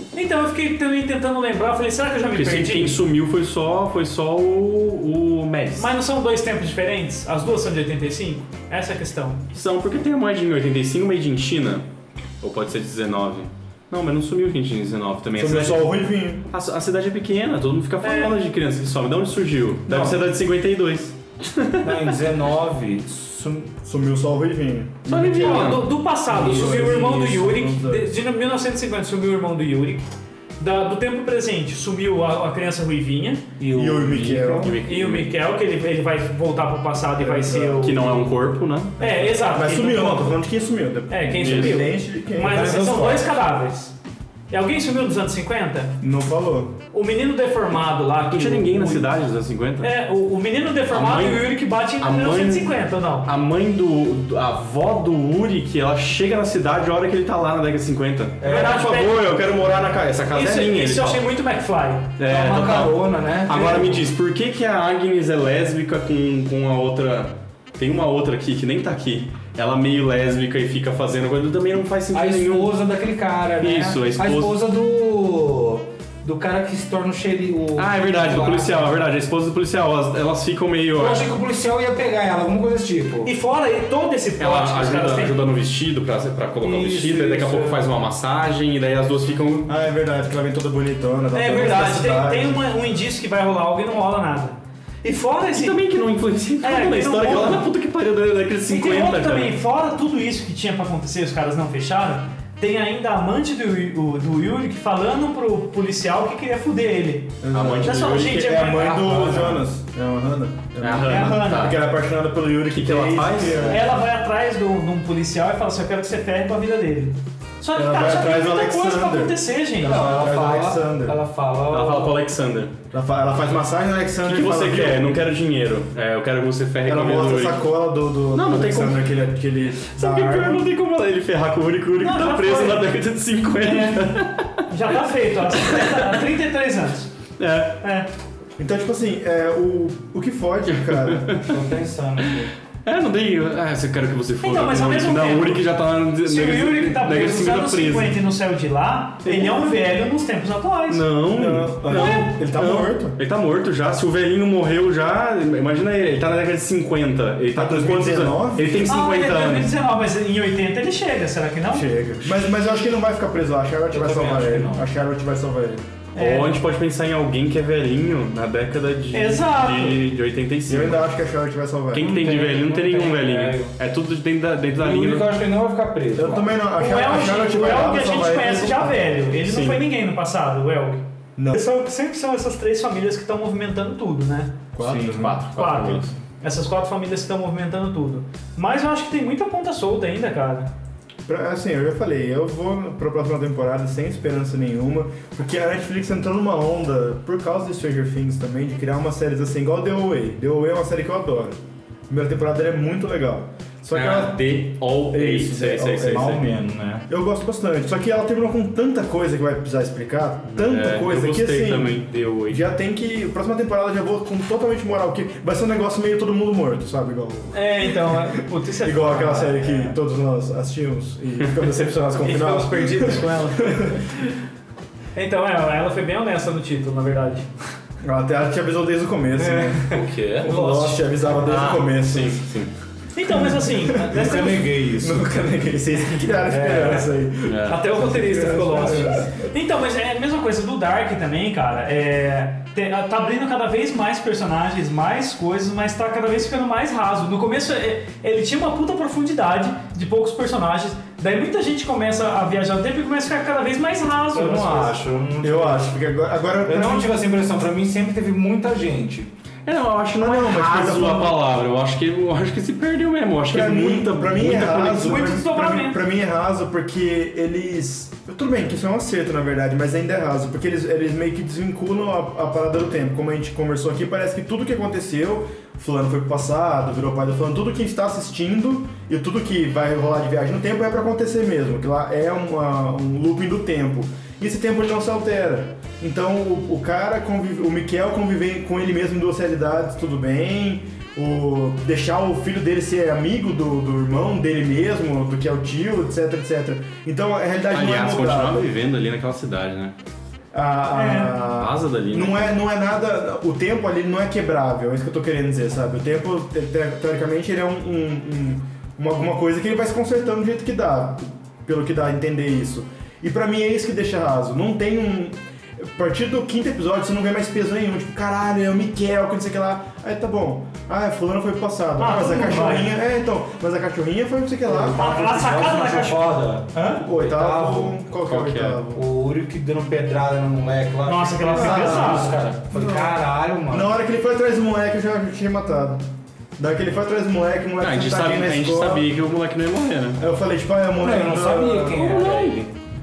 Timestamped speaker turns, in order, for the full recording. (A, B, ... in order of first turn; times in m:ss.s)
0:00.1-0:03.0 A
0:02.3-0:05.9 B
0:05.8-0:09.4 A
0:09.5-0:11.8 B
0:12.4-0:15.9 B
0:15.4-0:16.4 C
0:16.5-0:22.2 B
0:18.0-0:18.3 A
0:19.9-0:20.2 D
0:21.8-0:23.7 D
0:23.8-0:25.8 C
0:25.0-0:25.9 B
0:25.3-0:30.0 A
0:26.3-0:27.5 D
0:26.3-0:28.1 C
0:30.6-0:33.4 A
0:33.6-0:34.7 D
0:33.7-0:34.7 C
0:34.6-0:35.3 B
0:34.8-0:38.1 A
0:37.2-0:38.2 C
0:37.8-0:39.0 B
0:39.0-0:40.4 A
0:39.0-0:43.0 C
0:41.1-0:43.9 A
0:41.4-0:41.8 B
0:42.4-0:43.4 D
0:44.5-0:46.0 A
0:46.0-0:46.8 C
0:46.9-0:49.1 A
0:48.3-0:49.9 B
0:49.8-0:53.3 A
0:50.9-1:01.2 B
0:58.4-0:58.8 D
0:58.4-0:59.3 A
1:00.3-1:02.2 A
1:02.2-1:12.7 B
1:02.3-1:04.1 D
1:12.1-1:19.0 D
1:13.6-1:14.5 B
1:17.8-1:21.3 B
1:21.0-1:23.3 D
1:23.2-1:25.4 A
1:24.4-1:29.7 B
1:26.6-1:27.9 D
1:29.6-1:32.6 C
1:31.3-1:35.8 A
1:35.5-1:39.5 B
1:36.6-1:37.6 A
1:38.7-1:49.5 A
1:47.4-1:54.0 C
1:47.5-1:48.5 B
1:49.2-1:49.5 D
1:50.8-1:51.8 B
1:51.0-1:51.7 A
1:52.7-1:53.8 B
1:53.6-2:00.1 A
1:57.7-2:01.2 C
1:59.8-2:02.2 D
2:01.7-2:02.7 B
2:02.9-2:05.2 C
2:04.2-2:07.6 B
2:06.8-2:10.7 C
2:08.3-2:09.1 B
2:09.8-2:14.7 B
2:12.0-2:12.9 A
2:13.6-2:17.1 A
2:15.6-2:16.2 B
2:17.4-2:17.8 B
2:17.8-2:18.1 A
2:18.6-2:21.4 C
2:20.7-2:21.6 B
2:21.4-2:22.5 D
2:22.8-2:28.2 B
2:24.4-2:25.7 A
2:26.2-2:31.0 A
2:29.2-2:29.8 B
2:30.9-2:39.7 B
2:31.3-2:33.2 C
2:31.9-2:32.3 A
2:37.5-2:38.9 C
2:38.8-2:41.9 A
2:41.7-2:45.8 C
2:43.9-2:44.8 D
2:46.1-2:46.6 A
2:46.2-2:51.0 B
2:49.1-2:50.0 A
2:50.7-2:52.1 C
2:51.9-2:55.3 B
2:52.0-2:53.7 D
2:54.8-2:56.5 D
2:56.1-2:59.1 C
2:56.8-3:04.6 A
2:59.4-2:59.8 B
3:04.7-3:05.4 C
3:04.8-3:06.1 B
3:04.9-3:05.2 D
3:05.5-3:10.7 A
3:11.3-3:21.6 C
3:22.1-3:24.4 C
3:23.9-3:26.4 B
3:25.1-3:26.4 C
3:26.1-3:27.0 D
3:27.1-3:44.0 C
3:30.5-3:32.6 B
3:37.5-3:39.9 A
3:42.2-3:44.0 A
3:45.1-3:47.5 A
3:48.0-3:52.4 C
3:49.4-3:51.0 A
3:49.9-3:50.5 B
3:51.4-3:52.7 B
3:53.1-3:54.7 A
3:53.3-3:59.3 C
3:54.1-3:55.4 D
3:56.4-3:57.1 D
3:57.4-3:57.8 B
3:57.7-4:14.9 A
4:14.3-4:15.9 D
4:15.4-4:17.1 C
4:16.6-4:19.3 D
4:19.6-4:25.3 B
4:20.2-4:21.4 C
4:23.5-4:58.7 C
4:25.0-4:26.0 A
4:57.7-4:59.9 B
5:00.5-5:25.0 C
5:00.9-5:01.4 A
5:01.5-5:02.5 B
5:22.0-5:22.9 A
5:24.6-5:28.0 D
5:25.0-5:27.0 A
5:27.0-5:29.0 C
5:28.2-5:28.8 B
5:28.9-5:33.9 D
5:31.0-5:32.4 A
5:31.5-5:36.0 C
5:36.6-5:39.1 C
5:37.8-5:40.2 B
5:40.2-5:42.1 C
5:41.0-5:42.7 D
5:41.9-5:42.6 B